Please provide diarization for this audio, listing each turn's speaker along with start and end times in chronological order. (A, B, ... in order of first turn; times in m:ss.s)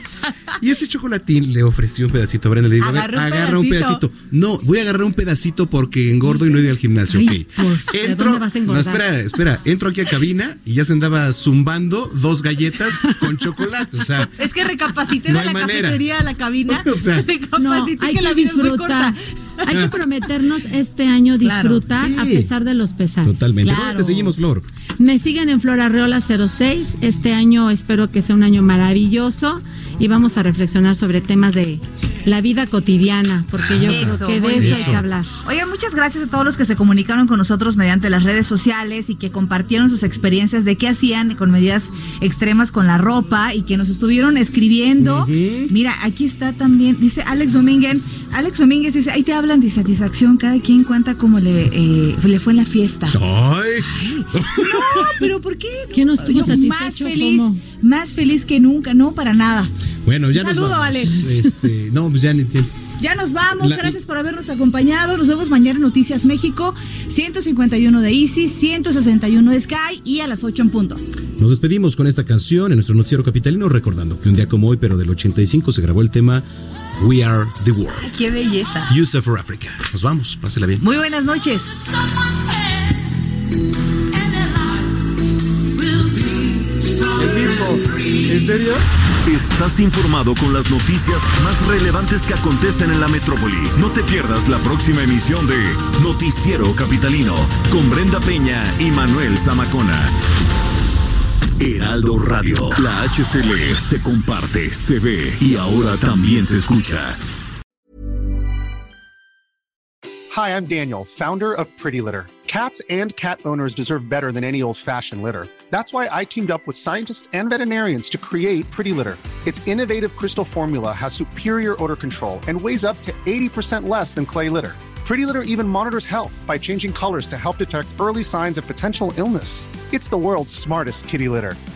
0:00.6-0:14.4 A
0:02.8-0:04.0 B
0:07.1-0:09.0 C
0:14.4-0:19.9 B
0:15.2-0:16.0 A
0:16.7-0:17.3 A
0:17.6-0:19.2 C
0:19.7-0:23.4 C
0:21.4-0:21.9 B
0:21.9-0:22.5 A
0:23.2-0:24.7 A
0:23.6-0:24.4 B
0:25.0-0:35.3 C
0:33.5-0:35.1 A
0:33.9-0:53.2 B
0:45.0-0:45.7 A
0:53.1-0:55.1 A
0:53.8-0:59.7 B
0:55.9-0:57.6 C
1:00.0-1:02.8 A
1:00.3-1:01.3 B
1:03.0-1:11.0 B
1:03.6-1:04.0 A
1:11.4-1:18.1 A
1:18.0-1:18.9 B
1:18.9-1:20.9 A
1:20.8-1:21.7 B
1:27.2-1:27.7 A
1:28.3-1:28.8 A
1:29.2-1:40.1 D
1:41.6-1:47.2 D
1:50.3-2:11.6 E